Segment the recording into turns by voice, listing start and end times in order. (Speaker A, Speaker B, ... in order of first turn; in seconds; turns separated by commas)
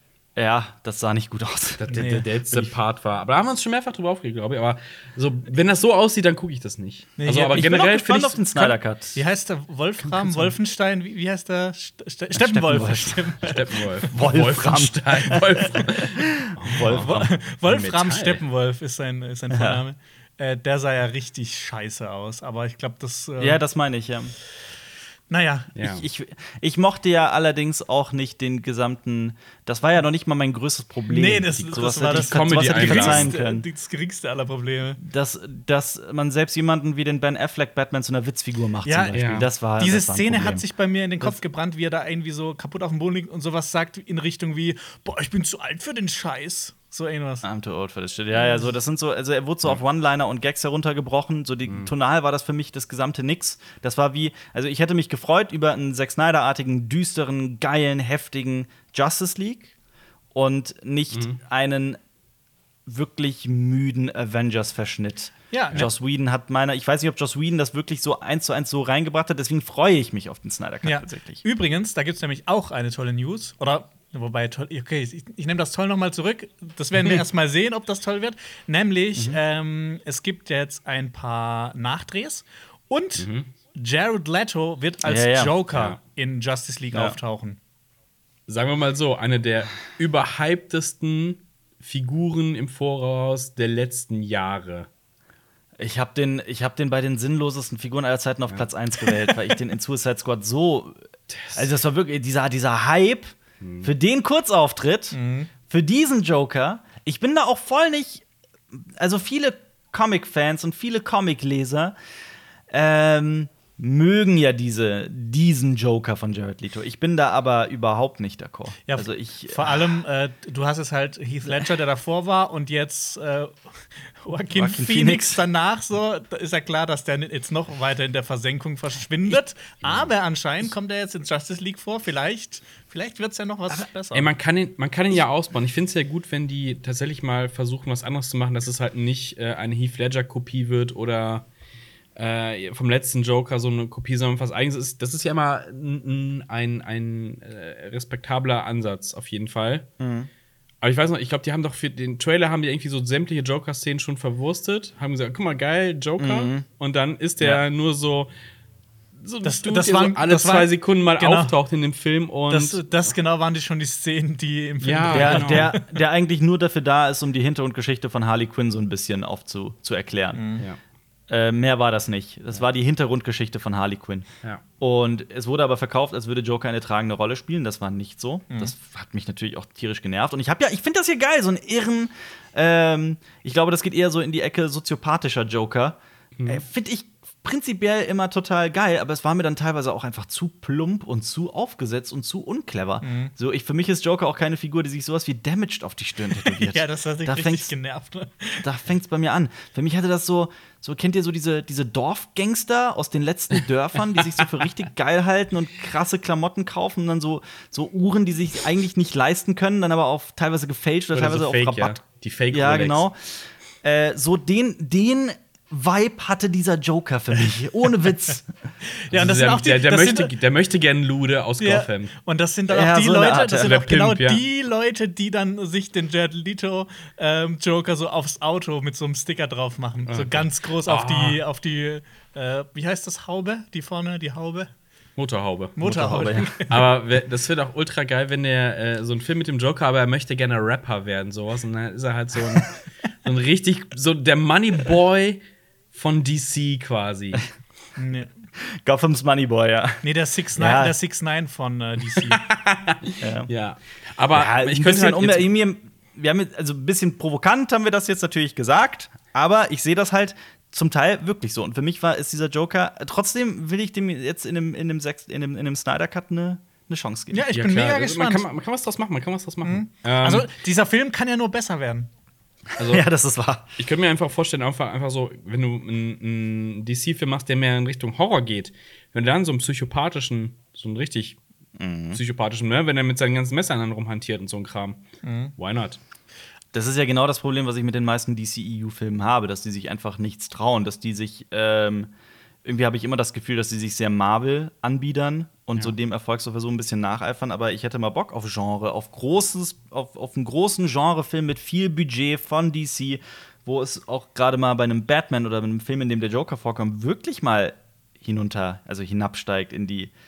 Speaker A: 0.4-2.7, Speaker B: 1.8-8.7, Speaker C: 1.9-2.3, Speaker C: 7.2-7.8, Speaker A: 7.5-9.2, Speaker C: 9.2-14.1, Speaker A: 12.3-13.4, Speaker B: 13.4-18.4, Speaker A: 14.1-17.3, Speaker C: 16.8-23.6, Speaker A: 19.5-19.8, Speaker A: 23.4-24.4, Speaker C: 25.3-25.7, Speaker B: 25.8-26.1, Speaker A: 25.8-33.7, Speaker C: 31.1-35.0, Speaker B: 32.0-33.3, Speaker A: 35.0-40.6, Speaker C: 38.9-39.2, Speaker B: 39.1-39.5, Speaker C: 39.8-47.5, Speaker A: 47.4-59.7, Speaker C: 48.4-48.7, Speaker A: 60.3-62.0, Speaker B: 61.1-61.4, Speaker A: 62.9-71.4, Speaker C: 65.5-65.9, Speaker C: 70.8-87.6, Speaker B: 83.2-83.5, Speaker A: 85.0-85.6, Speaker B: 85.7-86.0, Speaker B: 88.5-94.9, Speaker A: 95.8-112.0, Speaker B: 101.3-101.7, Speaker B: 103.6-103.9, Speaker C: 105.1-105.5, Speaker A: 112.7-120.0, Speaker C: 118.9-134.3, Speaker A: 124.5-125.4, Speaker B: 134.1-141.5, Speaker B: 142.2-149.9, Speaker A: 150.0-150.3, Speaker B: 150.8-158.3, Speaker A: 156.2-156.7, Speaker B: 159.2-163.1, Speaker C: 159.4-161.5, Speaker C: 162.5-166.0, Speaker B: 164.8-165.7, Speaker A: 165.1-170.6, Speaker C: 170.3-170.6, Speaker A: 171.3-174.3, Speaker A: 174.8-197.7, Speaker B: 186.4-186.6, Speaker C: 193.0-193.3, Speaker C: 196.4-198.7, Speaker A: 198.6-212.0, Speaker B: 211.1-213.0, Speaker A: 212.5-218.5, Speaker C: 218.9-220.3, Speaker B: 219.1-222.1, Speaker C: 221.6-234.7, Speaker A: 222.7-223.8, Speaker B: 223.5-224.4, Speaker B: 230.1-231.4, Speaker B: 235.2-245.4, Speaker C: 235.8-236.8, Speaker A: 235.8-236.6, Speaker B: 245.9-247.5, Speaker C: 248.0-248.3, Speaker A: 248.6-250.1, Speaker C: 250.0-252.4, Speaker A: 250.6-250.9, Speaker B: 252.2-255.5, Speaker A: 253.2-253.5, Speaker A: 254.3-267.4, Speaker C: 267.3-268.5, Speaker B: 267.5-270.5, Speaker C: 269.6-272.1, Speaker B: 272.8-273.1, Speaker A: 272.8-273.7, Speaker B: 273.8-281.4, Speaker A: 281.8-282.2, Speaker B: 282.1-285.0, Speaker C: 285.2-285.5, Speaker B: 285.6-286.0, Speaker A: 286.7-292.1, Speaker A: 292.6-310.1